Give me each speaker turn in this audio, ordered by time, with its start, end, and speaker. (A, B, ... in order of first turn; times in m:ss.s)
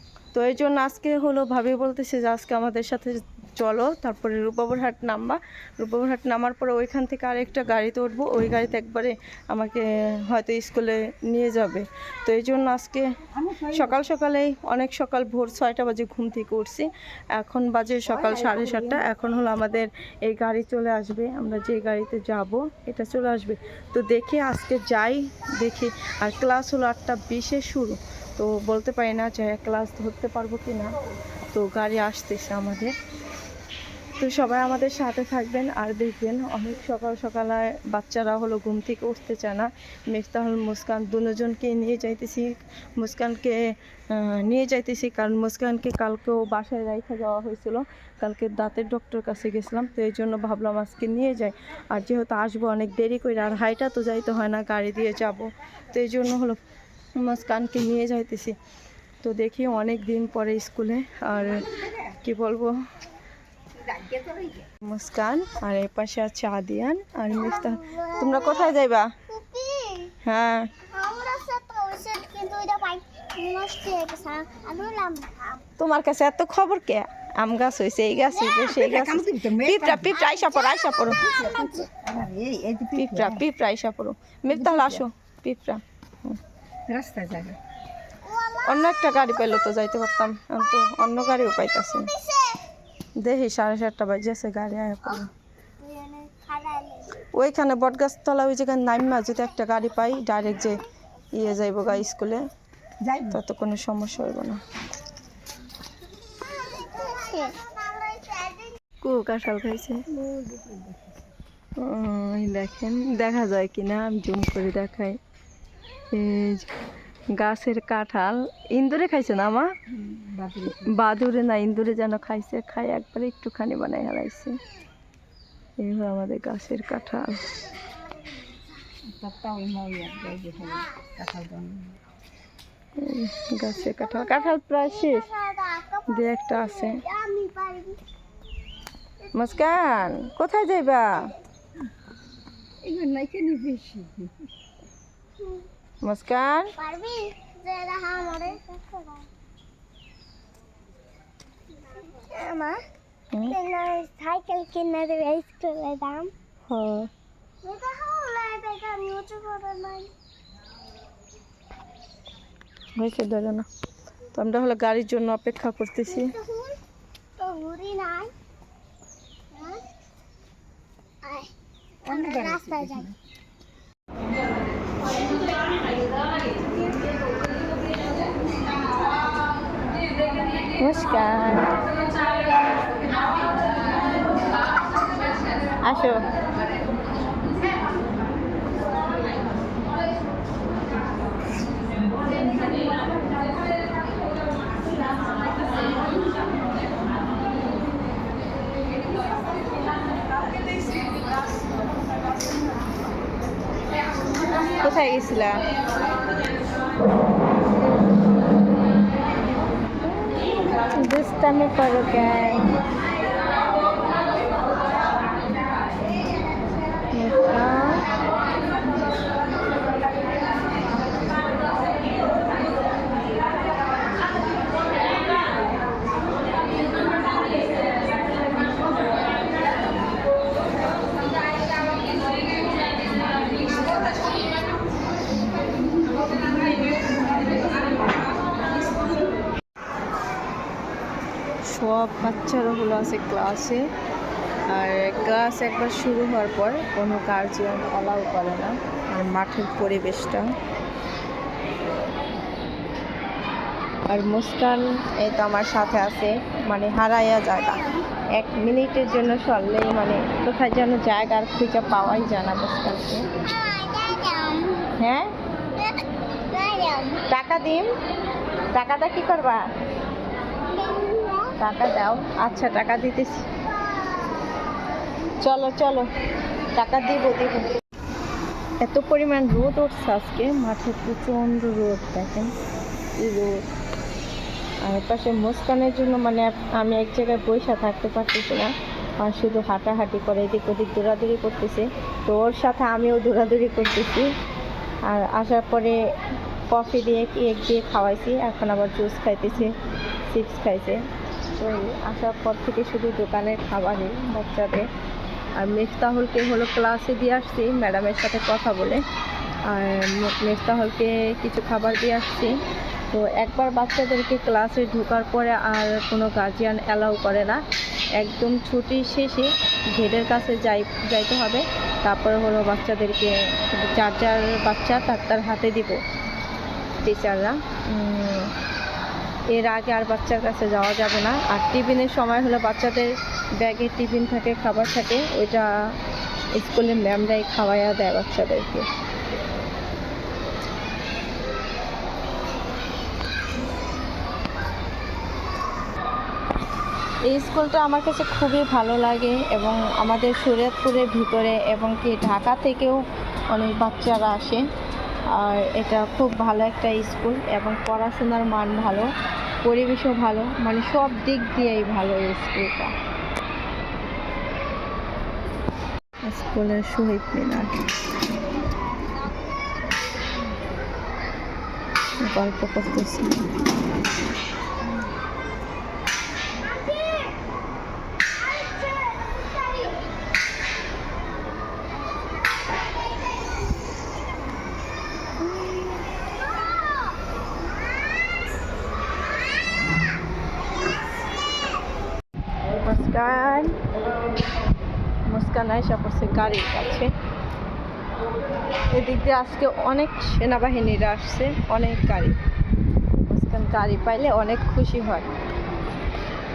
0:00.3-0:13.1 A
0:13.4-0:13.9 B
0:13.7-0:31.0 A
0:18.1-0:19.0 B
0:31.5-0:32.9 A
0:34.2-0:56.6 A
0:57.2-0:58.5 A
0:59.2-1:02.8 A
1:03.8-1:04.7 B
1:04.8-1:09.1 A
1:07.3-1:10.1 C
1:10.2-1:10.7 A
1:10.8-1:15.6 C
1:15.8-1:21.2 A
1:18.3-1:18.7 C
1:18.6-1:20.1 B
1:20.1-1:21.9 C
1:21.2-1:23.4 B
1:23.0-1:26.4 A
1:24.5-1:25.0 B
1:26.9-1:27.6 B
1:28.2-1:29.1 C
1:28.6-1:32.1 A
1:32.1-1:32.6 C
1:33.2-1:35.3 A
1:35.8-1:37.2 C
1:37.3-1:42.5 A
1:43.0-1:43.4 B
1:43.2-1:44.6 A
1:46.4-1:48.8 C
1:49.0-1:50.0 A
1:50.1-1:51.3 B
1:51.8-1:55.2 A
1:56.1-1:56.7 A
1:57.3-1:59.7 A
1:59.9-2:00.9 B
2:00.7-2:04.6 A
2:05.8-2:07.4 A
2:09.1-2:12.0 B
2:13.0-2:15.3 A
2:13.8-2:18.0 C
2:16.1-2:17.0 A
2:19.3-2:21.3 A
2:22.8-2:24.3 B
2:26.0-2:26.7 A
2:26.8-2:29.3 C
2:31.8-2:32.8 C
2:33.4-2:36.3 C
2:36.7-2:37.1 A
2:37.6-2:40.1 C
2:43.0-2:43.7 A
2:44.3-2:46.3 A
2:46.1-2:46.8 C
2:47.4-2:48.3 C
2:49.5-2:49.8 C
2:51.2-2:51.5 C
2:52.0-2:53.1 C
2:52.1-2:53.1 B
3:00.8-3:01.8 A
3:05.8-3:06.2 A
3:24.7-3:25.6 A
3:30.9-3:32.6 A
3:37.1-3:38.0 A
4:01.7-4:03.9 A
4:04.7-4:10.5 A
4:14.1-4:23.3 A
4:23.4-4:24.9 C
4:25.0-4:25.3 A
4:25.8-4:27.2 C
4:27.3-4:27.9 A
4:28.7-4:29.6 A
4:30.7-4:31.6 C
4:31.6-4:33.4 A
4:33.8-4:34.5 C
4:35.4-4:36.1 A
4:36.7-4:37.7 A
4:38.8-4:42.5 A
4:43.2-4:43.6 A
4:44.8-4:54.3 A
4:55.1-4:56.0 A
4:56.7-4:59.7 A
5:00.3-5:01.0 A
5:01.6-5:04.8 A
5:05.6-5:09.0 A
5:09.7-5:12.6 A
5:13.1-5:17.6 A
5:18.2-5:26.0 A
5:27.0-5:28.5 A
5:29.5-5:35.9 A
5:36.5-5:38.9 A
5:47.2-5:54.6 A
5:55.3-5:59.1 A
5:59.6-6:02.9 A
6:06.2-6:07.8 A
6:12.2-6:13.4 A
6:16.6-6:17.4 C
6:18.4-6:20.0 C
6:26.6-6:27.1 C
6:32.7-6:33.8 A
6:35.3-6:37.1 A
6:38.9-6:42.4 A
6:43.3-6:45.3 A